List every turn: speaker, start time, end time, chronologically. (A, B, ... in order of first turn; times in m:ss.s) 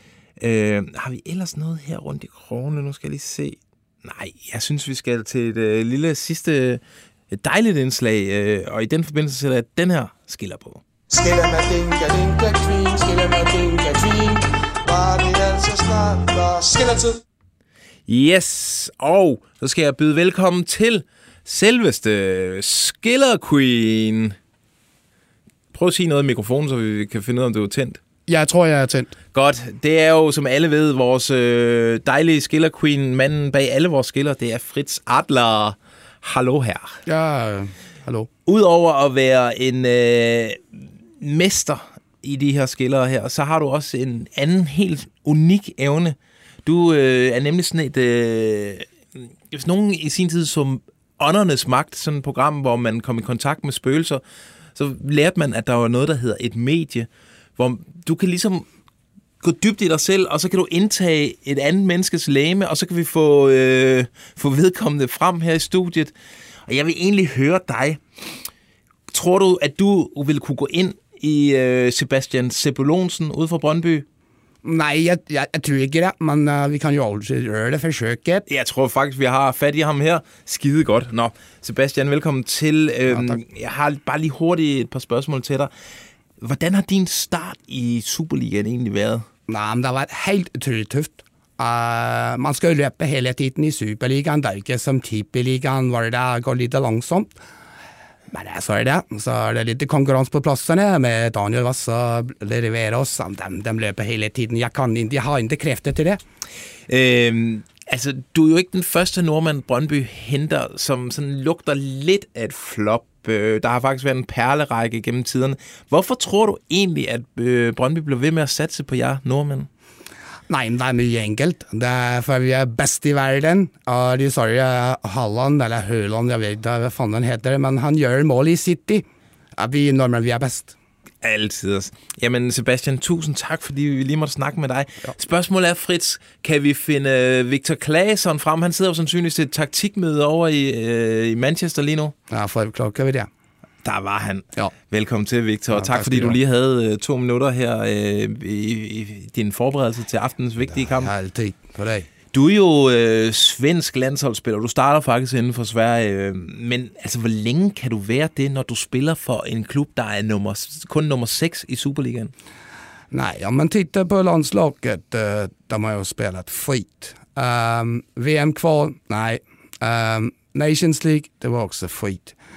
0:00.4-0:10.8 A
0:11.1-0:17.1 B
0:18.1-0:24.4 A
0:25.7-0:28.0 A
0:28.3-0:29.1 C
0:29.3-0:37.0 A
0:37.0-0:38.3 C
0:38.4-0:54.2 A
0:54.8-0:58.6 A
0:59.4-1:06.1 A
1:06.7-1:08.3 A
1:09.1-1:14.0 A
1:14.6-1:18.4 C
1:18.5-1:25.7 A
1:23.1-1:23.4 C
1:26.4-1:29.3 A
1:29.5-1:37.3 C
1:38.3-1:46.2 C
1:46.9-1:59.7 A
2:00.5-2:09.0 C
2:09.6-2:10.7 C
2:11.2-2:22.1 A
2:22.3-2:23.3 C
2:23.8-2:31.1 A
2:25.7-2:26.4 C
2:30.7-2:32.1 C
2:32.3-2:42.3 A
2:43.1-2:52.3 C